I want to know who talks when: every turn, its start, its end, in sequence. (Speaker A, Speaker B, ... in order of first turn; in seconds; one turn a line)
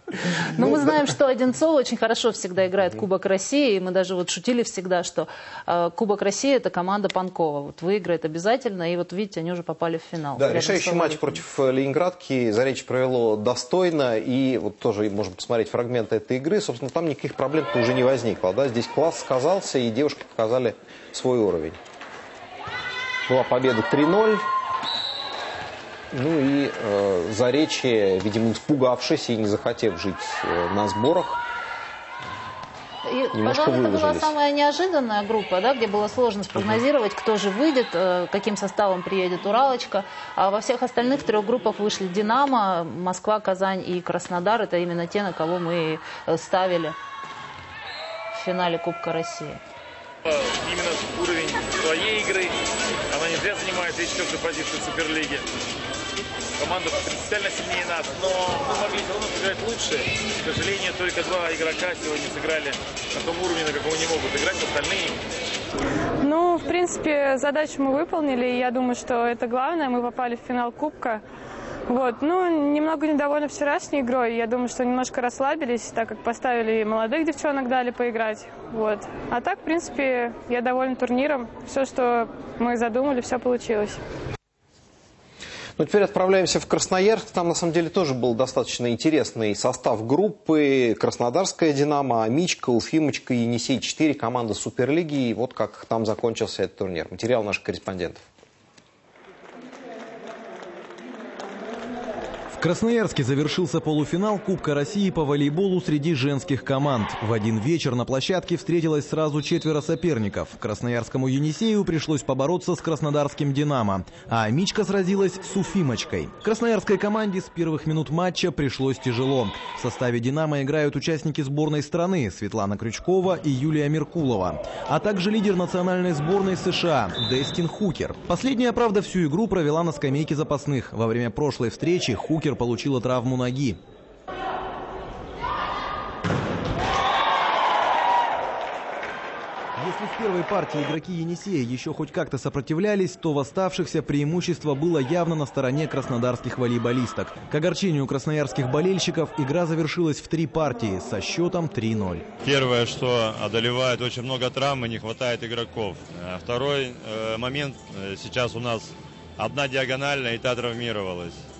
Speaker A: 0.4-11.3
Speaker B: 10.4-21.8
Speaker B: 23.3-24.5
Speaker B: 26.1-31.4
Speaker A: 33.0-47.0
Speaker B: 33.3-34.3
Speaker A: 48.3-49.6
Speaker C: 50.3-52.5
Speaker C: 53.1-55.5
Speaker C: 56.6-65.2
Speaker D: 66.2-71.2
Speaker D: 71.9-84.0
Speaker B: 85.8-98.2
Speaker E: 102.5-133.8
Speaker E: 139.8-152.3
Speaker F: 152.4-161.4